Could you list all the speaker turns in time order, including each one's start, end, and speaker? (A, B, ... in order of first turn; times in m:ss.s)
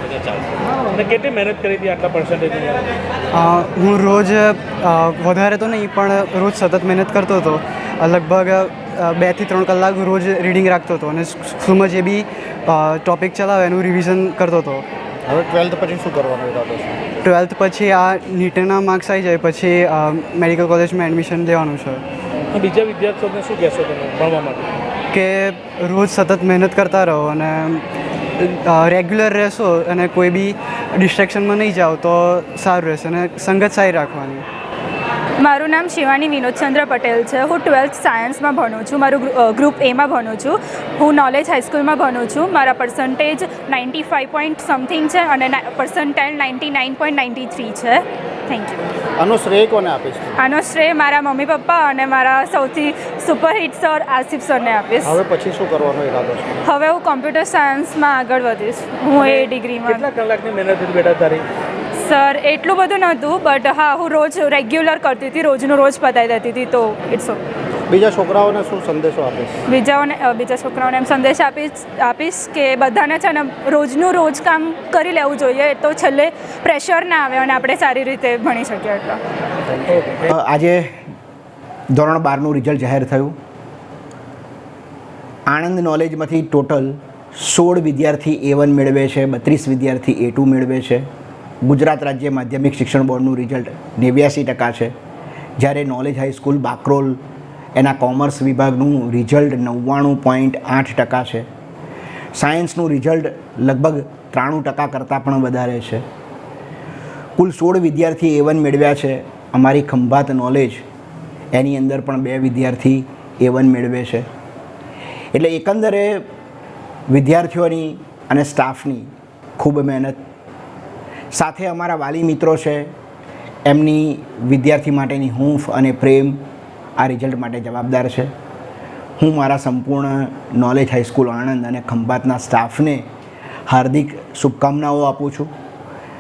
0:00.9-0:02.9 A
0:03.3-0:14.8 B
0:15.3-0:17.0 C
0:17.2-0:22.0 B
0:22.5-0:24.7 A
0:25.1-0:27.8 B
0:28.4-0:34.5 B
0:35.4-0:48.8 D
0:49.2-0:50.4 C
0:50.4-0:55.2 D
0:55.0-0:56.6 C
0:56.6-1:00.1 D
0:59.2-1:01.5 A
1:02.0-1:07.4 D
1:07.9-1:09.6 C
1:09.7-1:19.2 D
1:20.0-1:20.2 A
1:20.3-1:21.0 E
1:21.9-1:23.4 E
1:25.5-1:31.1 E
1:31.6-1:34.9 E
1:35.6-1:37.2 E
1:37.8-1:41.5 E
1:42.3-1:46.0 E
1:47.4-1:50.8 E
1:51.5-1:54.3 E
1:55.3-1:56.2 E
1:57.1-2:00.2 E
2:01.3-2:02.9 E
2:03.7-2:06.4 E
2:07.0-2:08.3 E
2:09.2-2:13.1 E
2:13.7-2:15.5 E